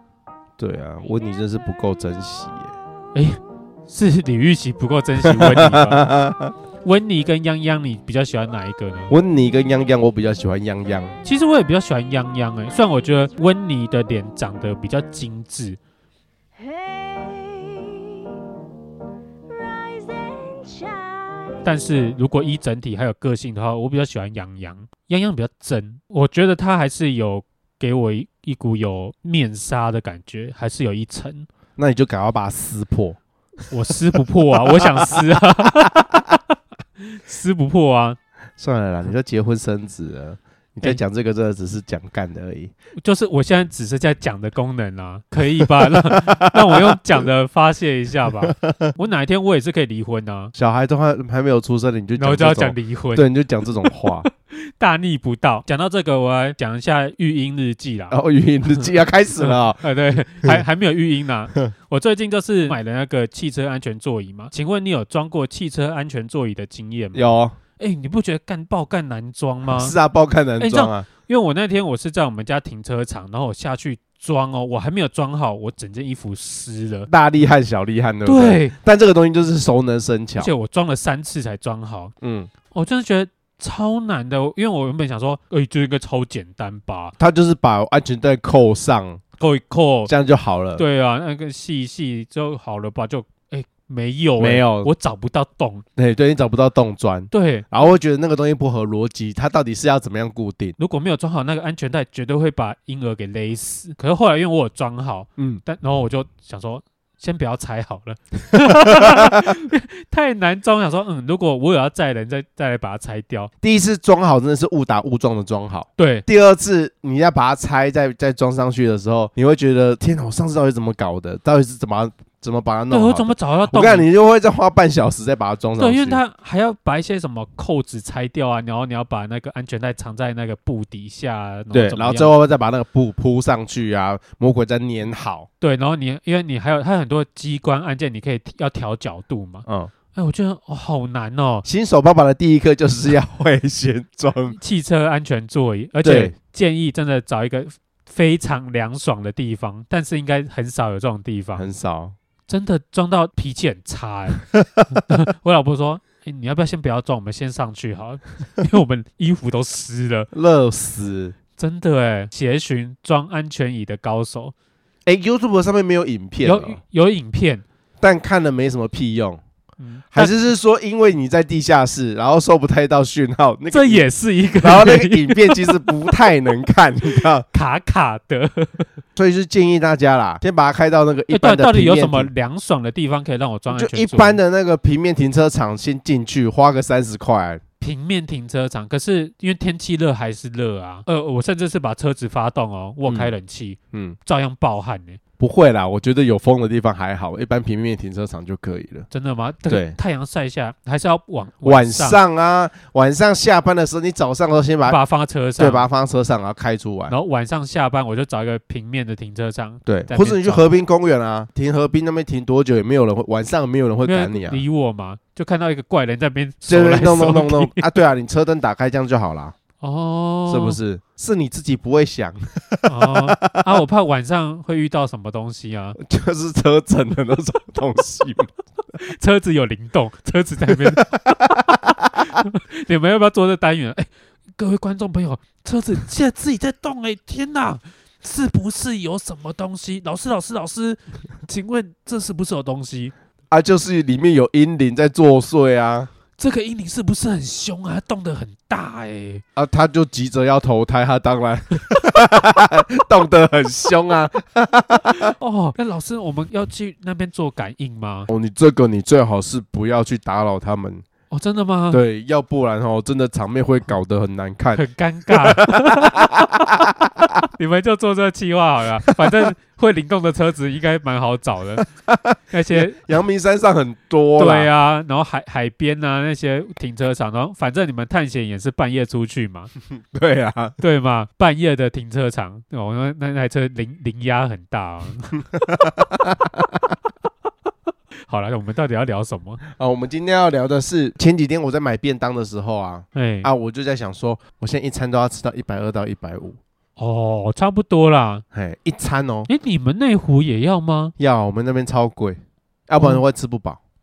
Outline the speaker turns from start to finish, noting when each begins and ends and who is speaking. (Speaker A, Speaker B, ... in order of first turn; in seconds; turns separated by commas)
Speaker A: 0.6-2.7, Speaker B: 3.1-6.1, Speaker A: 5.2-6.5, Speaker B: 6.8-9.1, Speaker A: 9.1-11.2, Speaker B: 11.2-15.8, Speaker C: 12.8-13.4, Speaker C: 16.6-18.4, Speaker C: 19.4-21.6, Speaker B: 21.6-31.5, Speaker A: 31.8-33.2, Speaker B: 33.7-36.3, Speaker A: 34.6-36.2, Speaker B: 37.0-38.2, Speaker A: 38.6-42.7, Speaker B: 43.0-50.5, Speaker A: 45.9-47.0, Speaker A: 48.4-48.9, Speaker A: 50.5-54.2, Speaker B: 52.2-53.2, Speaker B: 53.8-58.1, Speaker A: 58.1-59.8, Speaker B: 59.4-70.0, Speaker A: 67.1-67.5, Speaker A: 69.7-71.1, Speaker B: 70.6-77.1, Speaker A: 77.1-80.5, Speaker B: 78.2-78.7, Speaker B: 80.4-82.1, Speaker A: 82.2-82.5, Speaker B: 82.7-87.1, Speaker A: 87.2-89.2, Speaker B: 89.4-90.1, Speaker A: 90.1-90.8, Speaker B: 90.8-95.8, Speaker A: 94.4-94.9, Speaker A: 96.0-100.8, Speaker B: 97.3-97.6, Speaker B: 100.8-113.5, Speaker A: 108.5-109.3, Speaker A: 113.6-126.2, Speaker B: 116.0-116.2, Speaker B: 122.9-124.0, Speaker B: 125.8-132.3, Speaker A: 131.7-135.5, Speaker B: 135.6-141.7, Speaker A: 139.7-139.9, Speaker A: 141.6-144.6, Speaker B: 144.5-151.7, Speaker A: 146.0-146.3, Speaker A: 151.6-152.1, Speaker B: 152.5-160.3, Speaker A: 160.3-161.3, Speaker B: 161.6-164.5, Speaker A: 165.1-166.8, Speaker B: 166.4-167.6, Speaker A: 168.0-169.4, Speaker B: 169.8-170.3, Speaker A: 170.1-174.0, Speaker B: 173.7-176.1, Speaker A: 174.6-177.4, Speaker B: 177.5-178.9, Speaker A: 179.2-182.3, Speaker B: 181.3-184.4, Speaker A: 183.7-187.6, Speaker B: 187.8-195.2, Speaker A: 193.1-193.3, Speaker A: 193.9-194.2, Speaker A: 195.4-199.1, Speaker B: 199.1-202.2, Speaker A: 199.7-199.9, Speaker A: 201.6-205.0, Speaker B: 204.8-205.8, Speaker A: 205.6-207.1, Speaker B: 207.1-210.6, Speaker A: 209.8-214.6, Speaker B: 214.0-217.9, Speaker A: 216.7-219.5, Speaker B: 219.8-220.8, Speaker A: 220.5-223.7, Speaker B: 222.9-226.0, Speaker A: 226.0-228.5, Speaker B: 229.0-243.1, Speaker A: 230.6-232.2, Speaker A: 243.5-246.1, Speaker B: 246.4-249.4, Speaker A: 249.6-255.3, Speaker B: 255.1-258.3, Speaker A: 258.3-261.0, Speaker B: 261.3-262.0, Speaker A: 261.9-267.4, Speaker B: 264.7-266.4, Speaker B: 267.5-271.9, Speaker A: 269.2-269.5, Speaker A: 272.0-274.7, Speaker B: 272.5-273.0, Speaker B: 274.4-279.7, Speaker A: 280.1-280.8, Speaker B: 280.8-285.4, Speaker A: 285.6-286.8, Speaker B: 288.3-289.6, Speaker A: 289.7-296.6, Speaker B: 293.1-293.5, Speaker B: 297.0-298.4, Speaker A: 298.5-299.5, Speaker B: 299.5-301.1, Speaker A: 301.2-303.8